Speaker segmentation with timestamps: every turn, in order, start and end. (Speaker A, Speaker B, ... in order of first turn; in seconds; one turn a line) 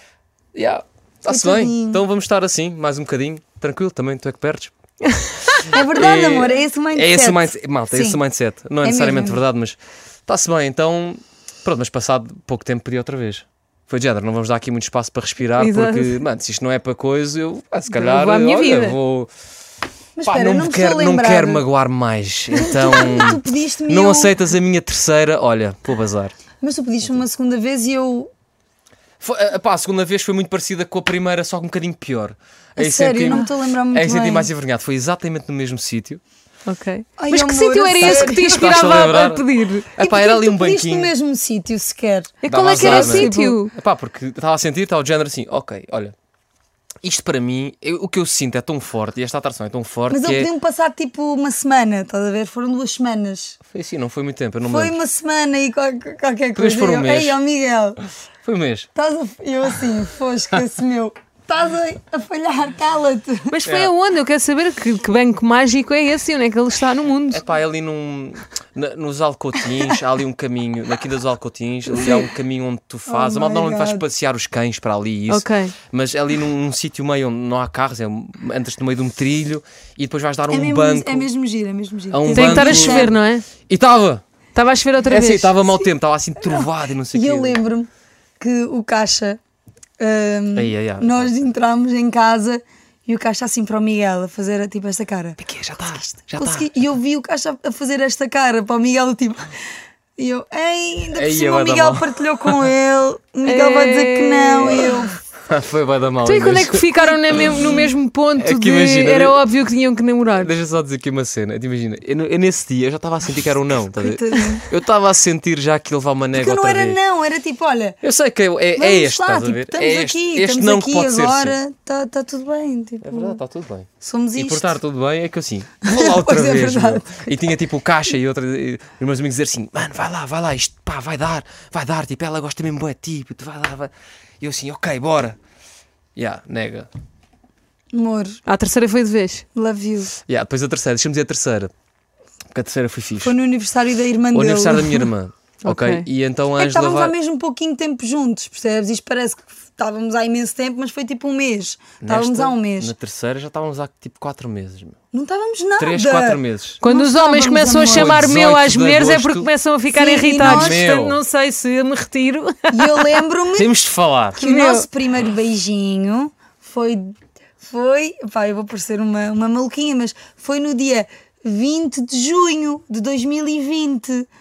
Speaker A: 0.5-4.7
Speaker B: 1.3-2.0
Speaker A: 5.6-19.3
Speaker B: 5.7-8.2
Speaker B: 8.8-9.4
Speaker C: 15.6-16.2
Speaker C: 17.9-19.0
Speaker B: 20.1-21.6
Speaker A: 20.2-26.4
Speaker B: 22.6-24.3
Speaker B: 26.6-28.3
Speaker A: 29.2-36.2
Speaker B: 32.8-34.5
Speaker C: 36.6-39.9
Speaker B: 37.2-39.0
Speaker A: 38.0-41.1
Speaker B: 40.0-43.6
Speaker C: 42.4-43.7
Speaker A: 42.5-46.1
Speaker A: 47.0-50.5
Speaker B: 50.1-53.6
Speaker A: 53.7-54.9
Speaker B: 54.7-58.0
Speaker A: 56.5-57.4
Speaker A: 58.4-58.9
Speaker B: 58.9-63.5
Speaker C: 63.5-67.4
Speaker A: 63.6-63.9
Speaker A: 67.3-81.3
Speaker B: 72.0-72.2
Speaker B: 73.0-74.0
Speaker C: 75.3-75.7
Speaker B: 80.5-83.1
Speaker A: 82.1-83.1
Speaker C: 82.3-83.4
Speaker A: 83.7-84.2
Speaker C: 84.5-85.5
Speaker A: 85.1-87.6
Speaker B: 86.5-87.9
Speaker B: 88.4-89.4
Speaker B: 90.0-95.4
Speaker A: 90.5-91.3
Speaker A: 95.4-96.7
Speaker B: 96.3-99.5
Speaker B: 100.2-105.2
Speaker A: 101.1-102.7
Speaker C: 103.4-104.9
Speaker A: 105.5-107.8
Speaker C: 106.2-110.5
Speaker A: 108.4-109.4
Speaker A: 110.4-117.0
Speaker B: 114.0-114.7
Speaker B: 116.3-118.0
Speaker A: 118.0-121.6
Speaker B: 118.7-123.4
Speaker A: 123.0-135.4
Speaker B: 124.0-124.7
Speaker B: 125.8-127.2
Speaker A: 136.2-136.9
Speaker B: 137.9-138.4
Speaker C: 138.4-139.4
Speaker B: 139.5-140.1
Speaker A: 140.2-141.7
Speaker A: 142.5-143.3
Speaker B: 143.2-145.1
Speaker A: 144.3-147.1
Speaker C: 145.6-146.1
Speaker B: 146.6-152.9
Speaker A: 152.0-155.0
Speaker B: 155.1-158.2
Speaker A: 155.8-156.8
Speaker C: 156.8-163.2
Speaker A: 157.9-159.5
Speaker B: 159.9-160.8
Speaker A: 160.4-161.2
Speaker B: 162.7-163.7
Speaker A: 163.5-164.4
Speaker B: 164.3-174.3
Speaker C: 164.4-164.9